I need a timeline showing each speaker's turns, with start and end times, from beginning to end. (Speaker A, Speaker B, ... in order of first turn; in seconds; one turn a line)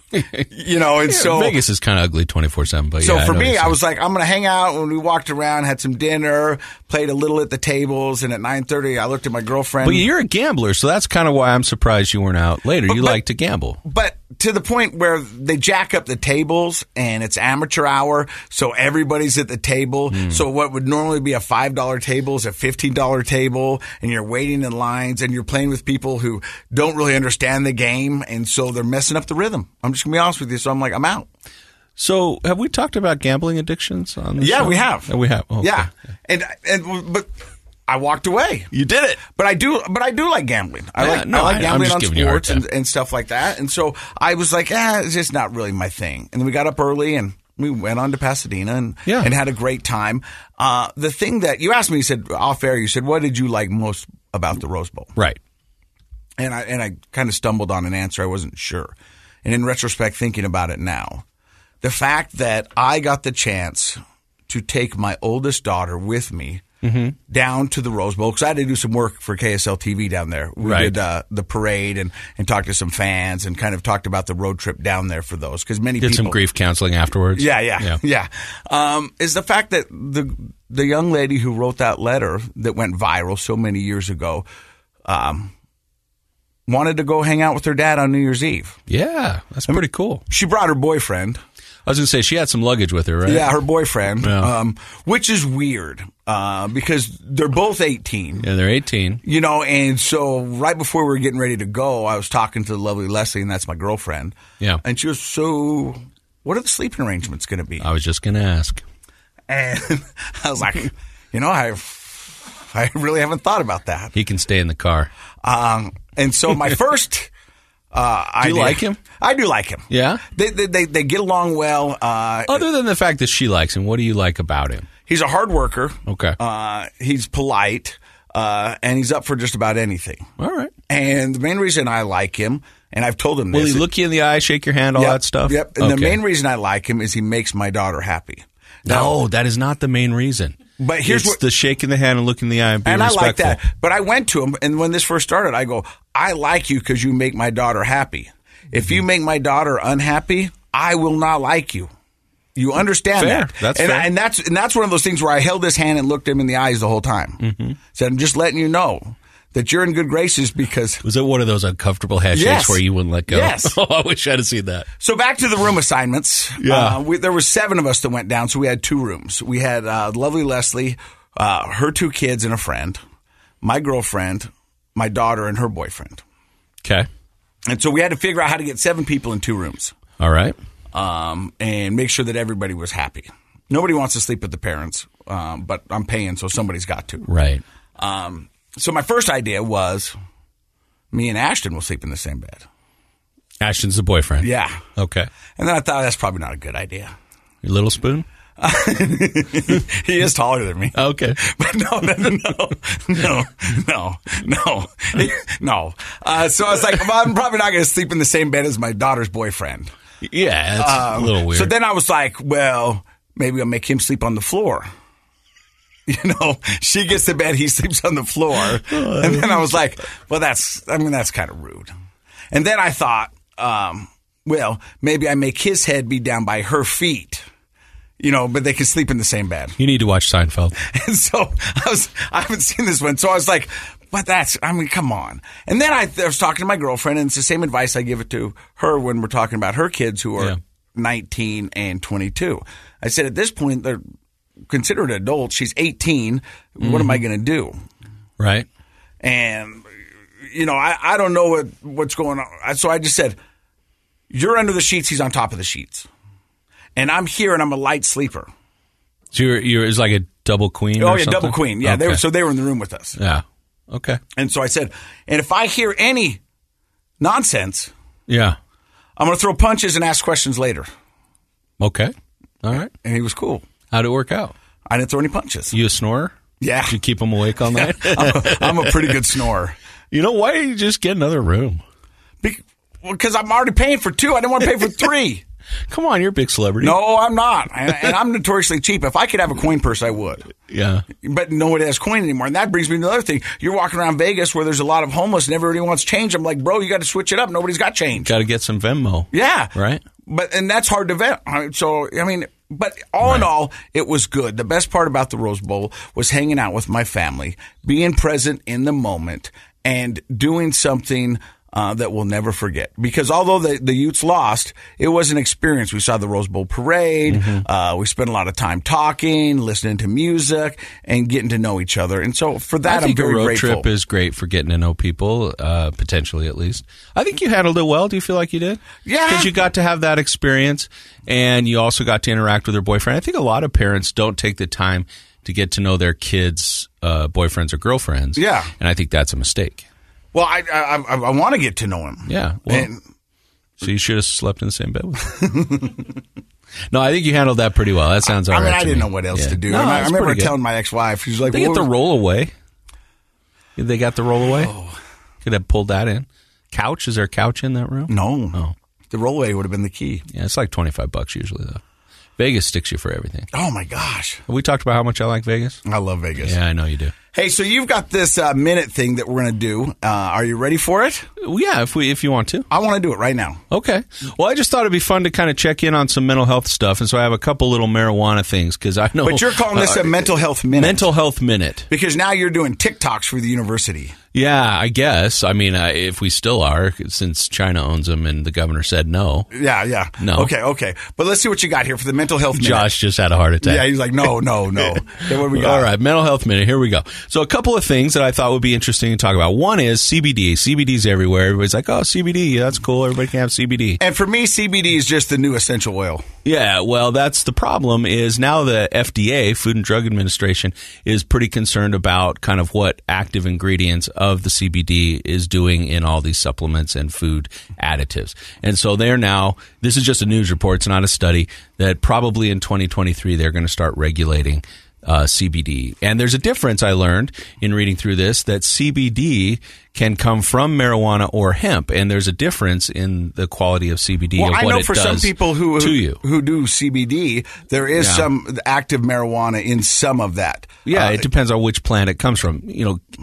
Speaker A: 0.1-0.5
Speaker B: 0.5-1.6
Speaker A: 1.1-3.8
Speaker B: 3.0-10.1
Speaker A: 9.8-13.8
Speaker B: 12.9-13.2
Speaker B: 13.8-31.3
Speaker A: 20.1-20.4
Speaker A: 32.0-35.9
Speaker B: 34.4-37.3
Speaker B: 37.9-38.7
Speaker A: 38.7-39.3
Speaker B: 39.3-55.1
Speaker A: 41.0-42.6
Speaker B: 56.4-58.9
Speaker B: 59.4-61.2
Speaker B: 61.8-66.6
Speaker A: 66.8-67.2
Speaker B: 67.3-76.4
Speaker A: 70.6-71.0
Speaker A: 76.0-78.0
Speaker B: 77.3-84.5
Speaker B: 85.0-85.5
Speaker B: 86.7-88.8
Speaker A: 88.9-90.2
Speaker B: 89.7-91.4
Speaker A: 91.9-93.5
Speaker B: 93.3-98.5
Speaker A: 94.2-94.5
Speaker A: 98.4-99.2
Speaker B: 99.2-107.8
Speaker A: 107.8-108.8
Speaker B: 109.5-114.1
Speaker A: 114.2-115.1
Speaker B: 115.4-117.3
Speaker B: 117.9-122.6
Speaker A: 118.4-119.0
Speaker A: 119.9-120.2
Speaker A: 122.5-124.9
Speaker B: 125.1-130.3
Speaker A: 126.1-126.4
Speaker A: 130.4-130.7
Speaker B: 130.9-133.9
Speaker A: 133.5-136.2
Speaker B: 134.9-139.2
Speaker A: 138.9-143.6
Speaker B: 140.8-141.4
Speaker B: 142.9-151.9
Speaker B: 152.6-157.4
Speaker A: 153.2-154.1
Speaker A: 157.4-157.8
Speaker B: 157.9-161.0
Speaker A: 161.0-164.9
Speaker B: 162.3-163.8
Speaker B: 165.0-173.0
Speaker A: 166.6-167.0
Speaker B: 173.6-176.2
Speaker B: 177.7-179.9
Speaker A: 180.2-180.6
Speaker B: 180.9-187.3
Speaker A: 187.3-187.6
Speaker B: 188.0-190.2
Speaker B: 191.1-192.7
Speaker A: 193.6-195.3
Speaker B: 194.4-194.8
Speaker B: 195.6-197.1
Speaker A: 197.6-198.3
Speaker B: 198.6-209.9
Speaker A: 200.9-201.4
Speaker A: 210.2-211.7
Speaker B: 210.8-214.9
Speaker B: 216.1-221.9
Speaker A: 218.9-219.7
Speaker B: 222.5-227.4
Speaker B: 228.2-229.8
Speaker A: 229.8-230.8
Speaker B: 230.8-244.0
Speaker B: 244.7-247.8
Speaker A: 246.8-247.2
Speaker A: 248.4-248.7
Speaker B: 249.2-249.9
Speaker B: 250.5-253.4
Speaker B: 254.3-256.1
Speaker B: 257.0-258.5
Speaker A: 259.3-262.2
Speaker B: 261.0-263.2
Speaker A: 263.2-264.2
Speaker B: 264.4-266.4
Speaker B: 267.2-267.9
Speaker A: 268.3-268.6
Speaker B: 269.2-270.9
Speaker A: 271.8-272.9
Speaker B: 273.0-273.6
Speaker A: 273.9-274.5
Speaker B: 274.9-275.8
Speaker A: 275.7-276.4
Speaker B: 276.6-277.0
Speaker A: 276.9-279.4
Speaker B: 277.7-279.8
Speaker A: 280.1-281.8
Speaker B: 282.4-285.4
Speaker A: 285.9-287.0
Speaker B: 286.8-290.5
Speaker A: 290.7-291.1
Speaker B: 291.2-298.3
Speaker A: 298.2-300.0
Speaker B: 299.3-299.7
Speaker B: 300.2-323.9
Speaker A: 303.2-303.5
Speaker A: 317.3-317.6
Speaker A: 322.9-339.9
Speaker B: 329.1-329.5
Speaker B: 338.4-338.7
Speaker B: 340.3-343.0
Speaker A: 342.3-342.9
Speaker A: 343.8-345.3
Speaker B: 345.4-346.0
Speaker A: 346.9-350.5
Speaker B: 348.3-351.9
Speaker A: 351.5-352.5
Speaker A: 353.8-354.7
Speaker B: 354.5-355.0
Speaker A: 355.4-358.7
Speaker B: 358.1-358.6
Speaker B: 359.1-360.2
Speaker A: 360.3-361.8
Speaker A: 362.4-363.5
Speaker B: 363.5-364.4
Speaker A: 364.5-365.8
Speaker B: 365.9-366.6
Speaker A: 366.4-367.1
Speaker B: 367.3-371.3
Speaker A: 371.4-372.7
Speaker B: 372.7-373.6
Speaker A: 373.7-381.9
Speaker B: 379.2-381.1
Speaker B: 381.9-384.2
Speaker A: 384.3-389.5
Speaker B: 389.5-392.9
Speaker A: 390.2-390.5
Speaker A: 392.5-404.0
Speaker B: 393.6-395.9
Speaker B: 404.0-406.2
Speaker A: 406.4-436.2
Speaker B: 434.4-441.2
Speaker A: 438.0-438.3
Speaker A: 440.9-443.0